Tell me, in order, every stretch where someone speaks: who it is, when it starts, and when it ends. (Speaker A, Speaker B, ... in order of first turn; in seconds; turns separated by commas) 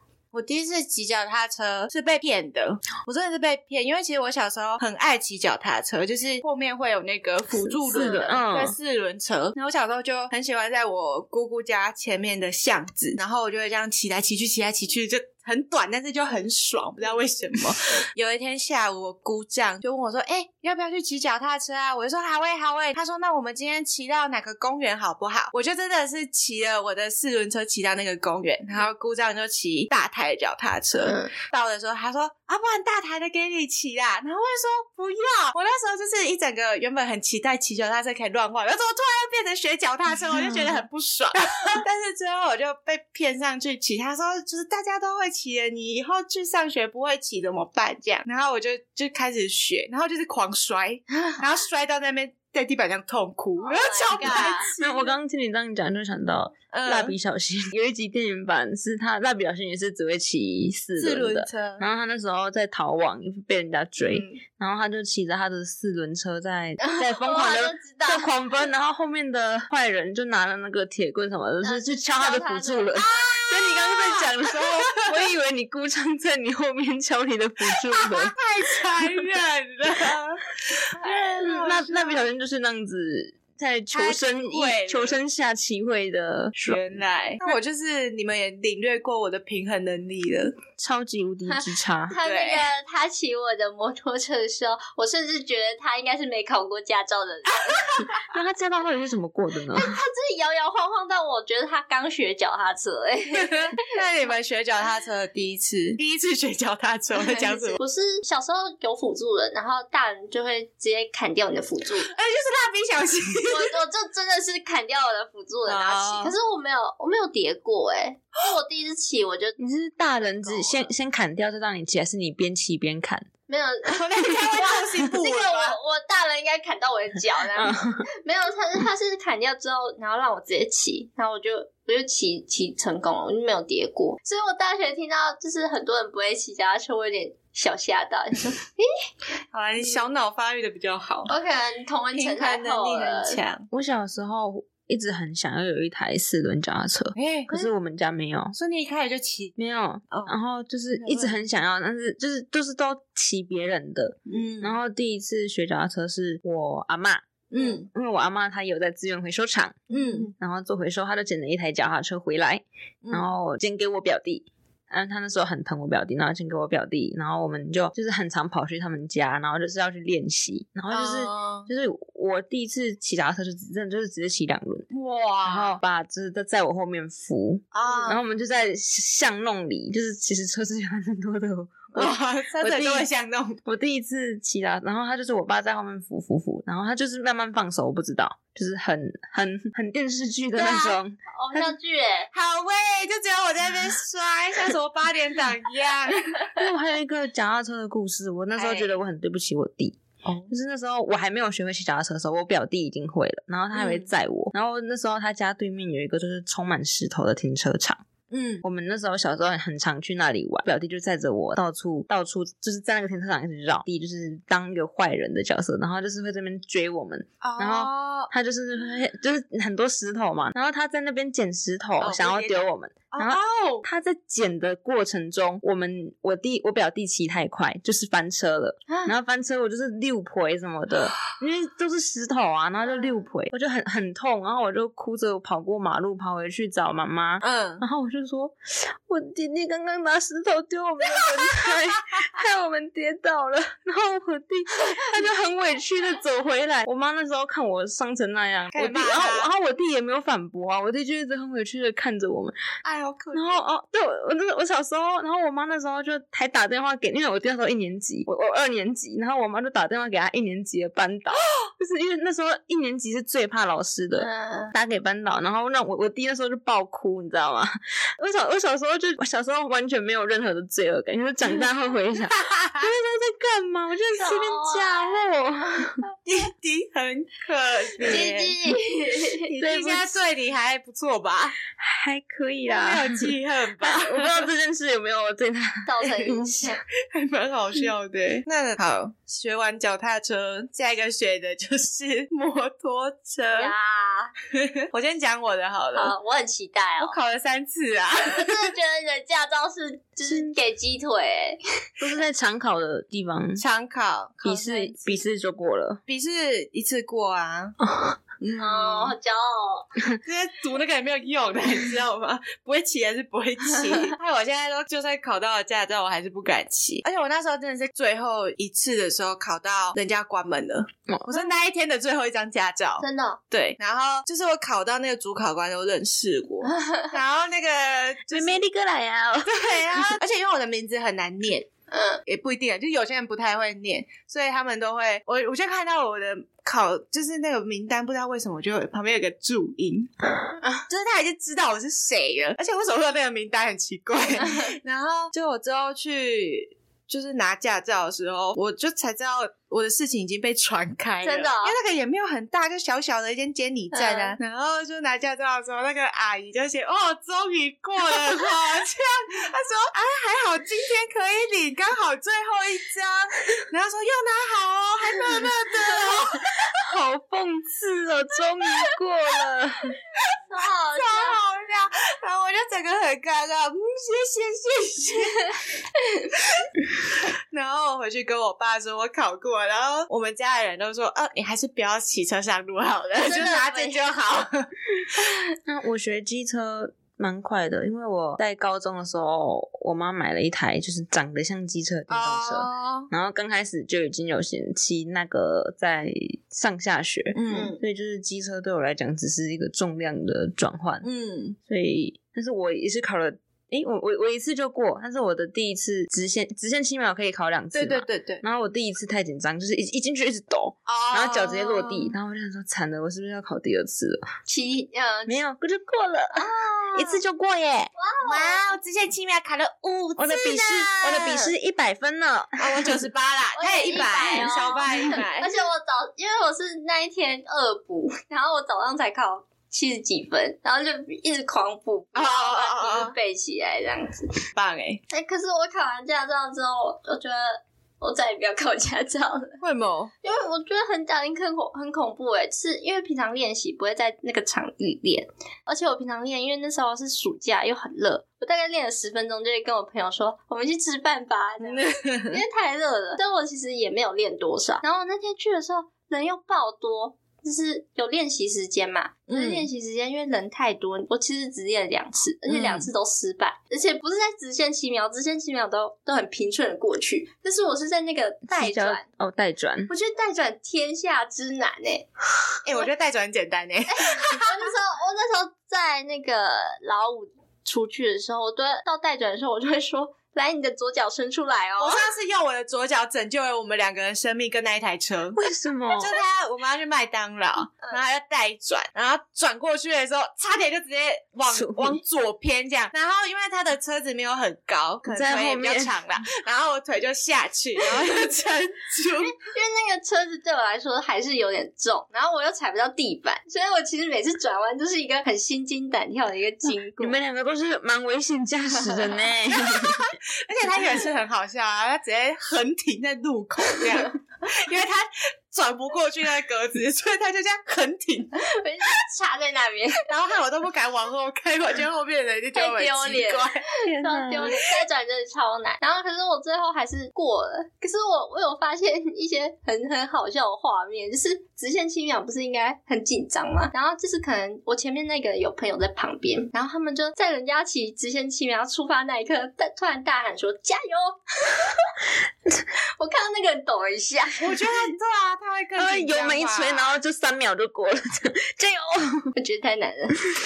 Speaker A: 0.3-55.1, Speaker B: 7.6-8.8, Speaker C: 7.9-8.3, Speaker C: 31.0-31.3, Speaker C: 53.6-54.7, Speaker B: 54.2-78.3, Speaker A: 56.7-57.1, Speaker A: 61.0-61.9, Speaker C: 64.0-64.4, Speaker C: 66.8-68.3, Speaker C: 71.6-73.4, Speaker A: 73.0-75.1, Speaker A: 77.9-82.2, Speaker C: 80.9-81.7, Speaker B: 81.4-86.8, Speaker A: 83.9-85.2, Speaker A: 86.6-90.6, Speaker B: 90.8-92.2, Speaker C: 91.5-98.0, Speaker A: 92.2-92.7, Speaker A: 97.7-98.2, Speaker B: 98.2-100.0, Speaker C: 99.7-103.8, Speaker A: 103.3-107.8, Speaker C: 107.2-112.1, Speaker A: 112.1-113.7, Speaker C: 113.5-119.6, Speaker A: 115.7-116.3, Speaker B: 119.6-123.3, Speaker C: 120.2-120.9, Speaker C: 123.5-138.9, Speaker A: 123.9-125.8, Speaker B: 127.5-128.1, Speaker A: 139.5-141.3, Speaker C: 141.3-143.4, Speaker A: 142.1-143.7, Speaker B: 143.7-148.6, Speaker A: 147.1-147.7, Speaker A: 148.5-149.5, Speaker B: 149.6-157.2, Speaker A: 151.0-151.4, Speaker A: 154.3-154.8, Speaker A: 157.5-157.9, Speaker B: 157.8-174.9, Speaker C: 159.9-160.3, Speaker A: 159.9-160.3, Speaker A: 163.0-163.3, Speaker A: 170.9-171.7, Speaker A: 174.9-175.8, Speaker B: 175.4-183.1, Speaker A: 177.7-178.2, Speaker C: 177.8-178.2, Speaker A: 181.9-183.6, Speaker B: 183.7-191.7, Speaker A: 190.6-190.9, Speaker C: 191.3-192.3, Speaker A: 192.3-196.6, Speaker B: 196.6-208.0, Speaker A: 198.5-198.9, Speaker A: 200.2-200.5, Speaker A: 203.7-204.1, Speaker A: 208.3-208.6, Speaker B: 208.6-252.6, Speaker A: 217.4-218.3, Speaker A: 222.0-223.8, Speaker C: 228.9-229.1, Speaker C: 232.9-233.1, Speaker A: 237.4-237.8, Speaker A: 248.7-249.5, Speaker A: 252.8-253.6, Speaker B: 253.3-276.0, Speaker C: 264.2-264.7, Speaker A: 272.3-272.9, Speaker C: 274.2-275.3, Speaker A: 276.2-278.6, Speaker C: 278.0-279.5, Speaker A: 279.4-281.6, Speaker B: 279.6-280.2, Speaker B: 281.8-285.9, Speaker A: 282.6-284.5, Speaker C: 285.9-286.8, Speaker A: 286.1-293.7, Speaker C: 293.5-294.3, Speaker A: 294.5-296.1, Speaker C: 295.9-297.2, Speaker A: 297.0-298.7, Speaker C: 298.2-301.6, Speaker B: 300.2-300.5, Speaker B: 302.0-303.6, Speaker A: 303.6-305.2, Speaker B: 304.4-306.0, Speaker A: 306.1-307.8, Speaker B: 307.8-308.2, Speaker A: 308.4-309.1, Speaker C: 308.6-309.9, Speaker A: 310.2-328.6, Speaker B: 321.1-321.4, Speaker C: 323.0-323.4, Speaker C: 326.6-327.1, Speaker B: 328.3-330.2, Speaker A: 329.4-331.7, Speaker C: 331.9-332.2, Speaker A: 332.2-340.1, Speaker A: 340.9-366.5, Speaker C: 344.4-344.7, Speaker C: 351.2-351.8, Speaker C: 353.9-354.4, Speaker B: 366.3-370.0, Speaker C: 370.5-371.4, Speaker A: 370.9-375.6, Speaker C: 376.0-376.3, Speaker A: 376.4-376.7, Speaker A: 377.5-384.7, Speaker C: 383.2-384.0, Speaker B: 385.6-401.1, Speaker A: 392.1-393.1, Speaker A: 397.3-397.7, Speaker C: 397.5-397.8, Speaker A: 401.0-401.6, Speaker B: 401.7-414.3, Speaker A: 407.7-408.4, Speaker A: 410.9-412.1, Speaker C: 414.5-415.4, Speaker B: 415.3-417.9, Speaker C: 416.3-417.2, Speaker C: 417.9-418.8, Speaker A: 418.2-421.5, Speaker B: 420.2-423.0, Speaker A: 422.6-425.5, Speaker C: 423.6-434.3, Speaker A: 432.1-433.1, Speaker A: 434.5-435.0, Speaker C: 435.1-439.6, Speaker A: 439.6-440.1, Speaker C: 440.2-469.0, Speaker A: 451.6-452.4, Speaker A: 459.3-459.7, Speaker B: 468.5-469.9, Speaker C: 469.9-472.1, Speaker A: 472.6-474.6, Speaker C: 473.9-482.0, Speaker A: 481.8-485.4, Speaker B: 485.3-486.1, Speaker A: 485.9-499.4, Speaker B: 491.5-492.0, Speaker B: 495.1-496.0, Speaker C: 499.2-507.2, Speaker B: 507.0-510.1, Speaker C: 508.8-509.1, Speaker A: 509.6-518.4, Speaker C: 518.4-520.0, Speaker A: 520.1-523.6, Speaker C: 522.5-541.9, Speaker B: 523.9-524.6, Speaker C: 543.0-544.5, Speaker A: 544.4-547.0, Speaker B: 545.8-549.3, Speaker C: 549.4-550.2